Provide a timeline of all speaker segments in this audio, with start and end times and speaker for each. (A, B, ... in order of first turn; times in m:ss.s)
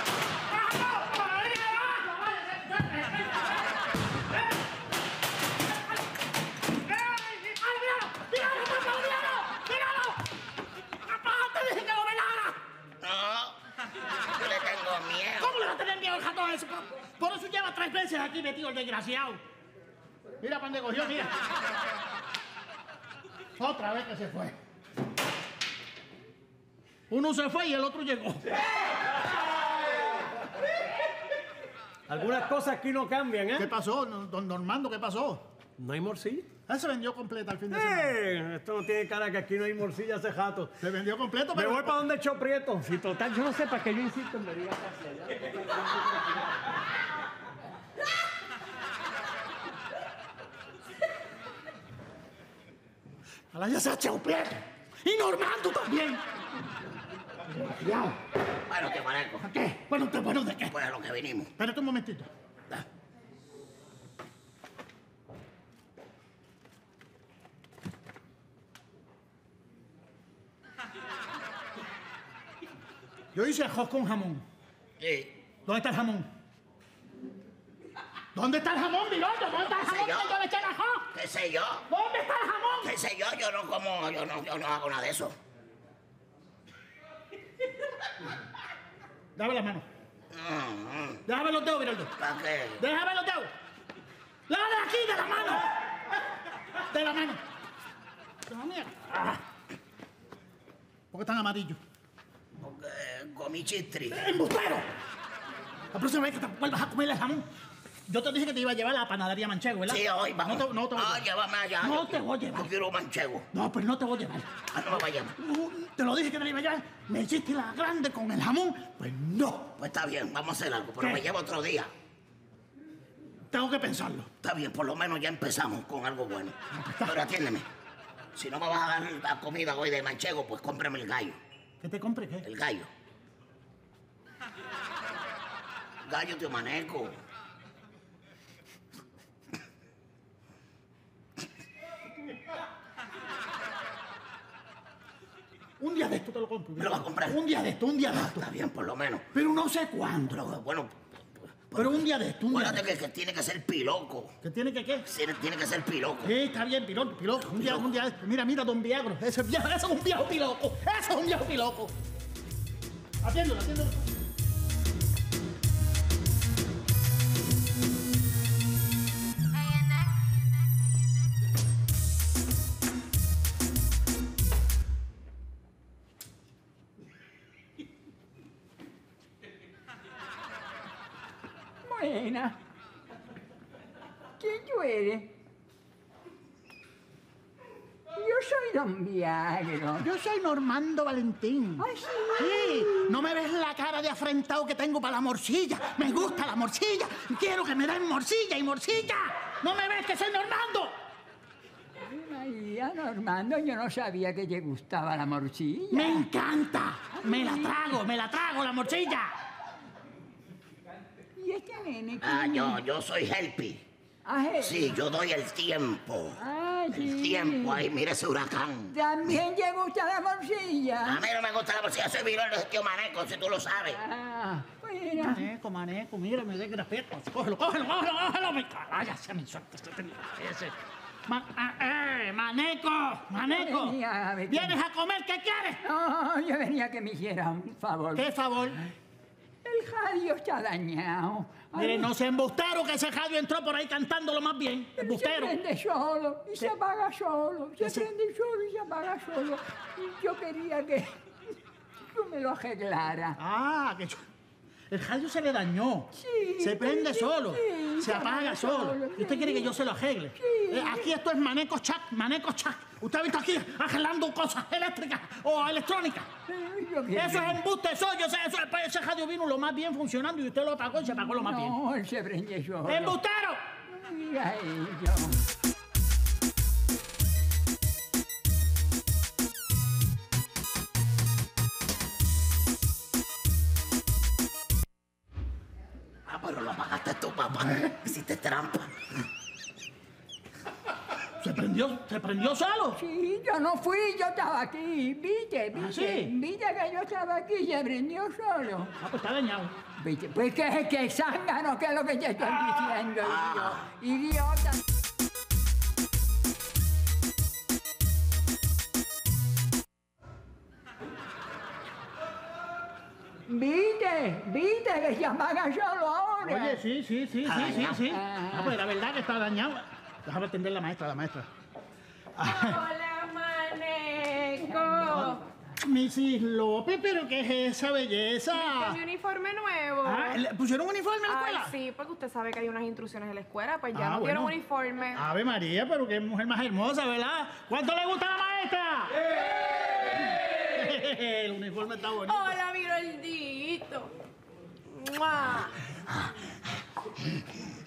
0:00.5-0:03.5 A
0:06.9-0:10.2 A
0:11.0-0:12.6 A
0:13.0-0:13.6 B
0:14.3-0:15.5 B
0:15.4-0:19.4 A
0:20.4-0:21.3 A
0:23.6-0:24.6 A
0:27.1-0:28.4 A
0:32.1-0:33.7 C
0:33.5-0:35.5 A
0:35.8-0:36.5 C
0:36.6-0:38.2 A
0:37.7-0:40.7 C
0:40.8-0:42.0 A
0:41.5-0:45.4 C
0:53.5-0:56.2 A
0:57.5-0:58.2 A
0:58.7-0:59.4 B
0:59.4-1:00.7 A
1:00.7-1:01.5 B
1:01.6-1:02.3 A
1:13.3-1:14.4 A
1:15.0-1:15.3 B
1:15.6-1:16.3 A
1:18.3-1:21.1 A
1:19.8-1:20.3 B
1:21.1-1:21.8 B
1:21.9-1:22.9 A
1:22.8-1:25.4 B
1:29.4-1:29.8 A
1:30.3-1:31.2 B
1:31.3-1:32.1 A
1:32.2-1:32.8 B
1:32.8-1:33.5 A
1:34.5-1:35.6 A
1:36.9-1:37.4 A
1:38.5-1:39.4 A
1:41.1-1:41.8 A
1:42.6-1:44.2 B
1:44.1-1:44.9 A
1:45.9-1:47.4 A
1:48.1-1:51.2 A
1:49.9-1:53.4 B
1:51.8-1:52.7 A
1:53.5-1:59.7 A
1:54.7-1:55.4 B
1:59.8-2:01.9 B
2:01.0-2:01.2 A
2:03.5-2:04.3 A
2:04.4-2:07.6 B
2:06.7-2:07.2 A
2:08.4-2:11.4 B
2:11.8-2:12.5 A
2:12.4-2:12.9 B
2:16.0-2:17.2 B
2:25.8-2:28.4 A
2:26.8-2:27.4 B
2:28.1-2:29.3 B
2:29.3-2:30.4 A
2:30.3-2:34.3 B
2:31.7-2:32.8 A
2:34.4-2:35.1 A
2:35.1-2:36.3 B
2:36.2-2:41.9 A
2:37.5-2:37.8 B
2:43.2-2:44.0 A
3:01.8-3:02.6 D
3:04.4-3:05.3 D
3:08.1-3:10.1 D
3:10.0-3:20.9 A
3:11.8-3:13.2 D
3:22.0-3:26.3 D
3:25.9-3:29.3 A
3:27.2-3:27.9 D
3:31.4-3:32.8 D
3:32.2-3:33.8 B
3:34.2-3:35.0 D
3:34.6-3:36.4 B
3:36.4-3:37.9 D
3:36.9-3:38.9 B
3:38.9-3:41.2 D
3:41.0-3:44.0 B
3:43.9-3:45.4 D
3:45.2-3:50.7 A
3:51.3-3:54.0 A
3:53.4-3:54.8 D
3:54.5-3:55.8 A
3:55.8-3:58.3 D
3:58.2-3:58.8 A
3:59.6-4:02.1 D
4:01.7-4:05.6 A
4:05.0-4:11.2 D
4:07.8-4:08.1 A
4:12.1-4:13.4 D
4:13.4-4:14.2 A
4:14.9-4:26.3 A
4:16.1-4:19.7 D
4:20.4-4:21.1 D
4:26.5-4:27.6 D
4:27.1-4:31.8 A
4:31.0-4:33.2 D
4:32.8-4:33.6 A
4:33.9-4:35.4 D
4:46.3-4:49.0 B
4:51.4-4:53.0 A
4:53.0-4:58.9 D
4:55.7-4:56.3 A
4:59.0-4:59.7 A
5:00.0-5:04.8 D
5:03.2-5:03.8 B
5:13.4-5:16.8 D
5:16.4-5:21.5 A
5:17.4-5:18.0 B
5:17.9-5:18.8 D
5:22.4-5:22.8 A
5:22.4-5:25.4 E
5:25.8-5:29.0 A
5:28.5-5:30.4 E
5:30.0-5:31.7 A
5:31.3-5:35.2 E
5:33.9-5:34.5 A
5:35.1-5:39.2 A
5:40.7-5:42.6 A
5:42.2-5:44.1 E
5:44.9-5:45.8 E